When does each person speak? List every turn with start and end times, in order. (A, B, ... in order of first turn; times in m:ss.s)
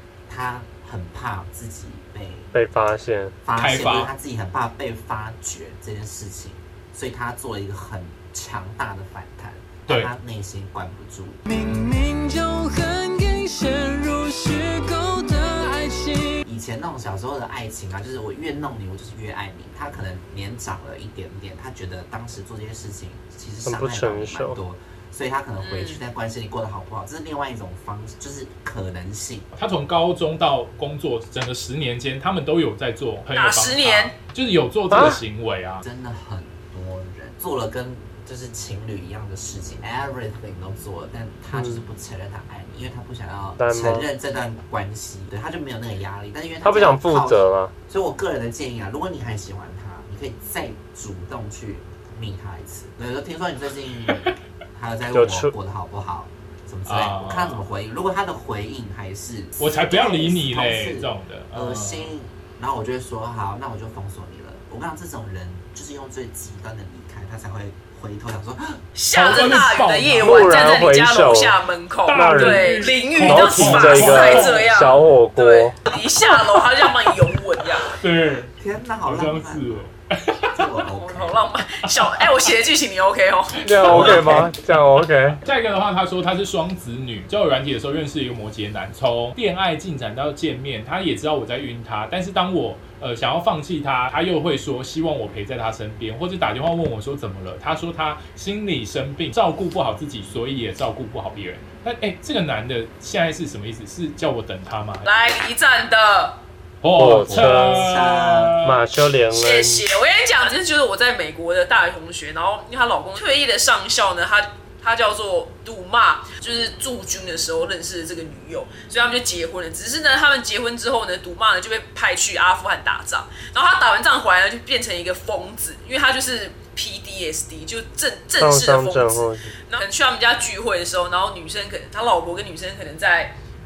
0:00.3-0:02.5 A
0:02.5-0:03.3 B
0:03.4-0:11.4 A
0:03.5-0:04.1 C
0:09.9-0:10.1 C
0:11.5-0:16.4 D
0:16.4-0:29.5 A
0:23.6-0:24.6 B
0:25.6-0:26.0 E
0:29.5-0:35.8 C
0:33.3-0:34.1 E
0:34.9-0:35.2 B
0:35.8-1:08.8 A
0:41.5-0:41.8 B
0:43.6-0:44.1 B
0:46.6-0:47.7 B
0:55.1-0:55.5 B
0:56.9-0:57.6 C
0:59.6-1:02.1 C
1:08.9-1:17.9 E
1:09.1-1:10.5 C
1:10.2-1:11.6 B
1:12.1-1:14.7 C
1:12.1-1:15.8 B
1:17.8-1:20.8 C
1:18.6-1:19.8 A
1:20.5-1:21.5 A
1:21.0-1:24.4 E
1:21.8-1:22.2 C
1:23.6-1:25.4 B
1:23.7-1:24.5 C
1:25.3-1:45.0 C
1:45.0-1:46.4 E
1:46.8-1:48.6 C
1:46.9-1:47.9 B
1:47.2-1:48.6 A
1:48.6-1:49.8 B
1:49.3-2:13.3 E
2:08.4-2:09.5 B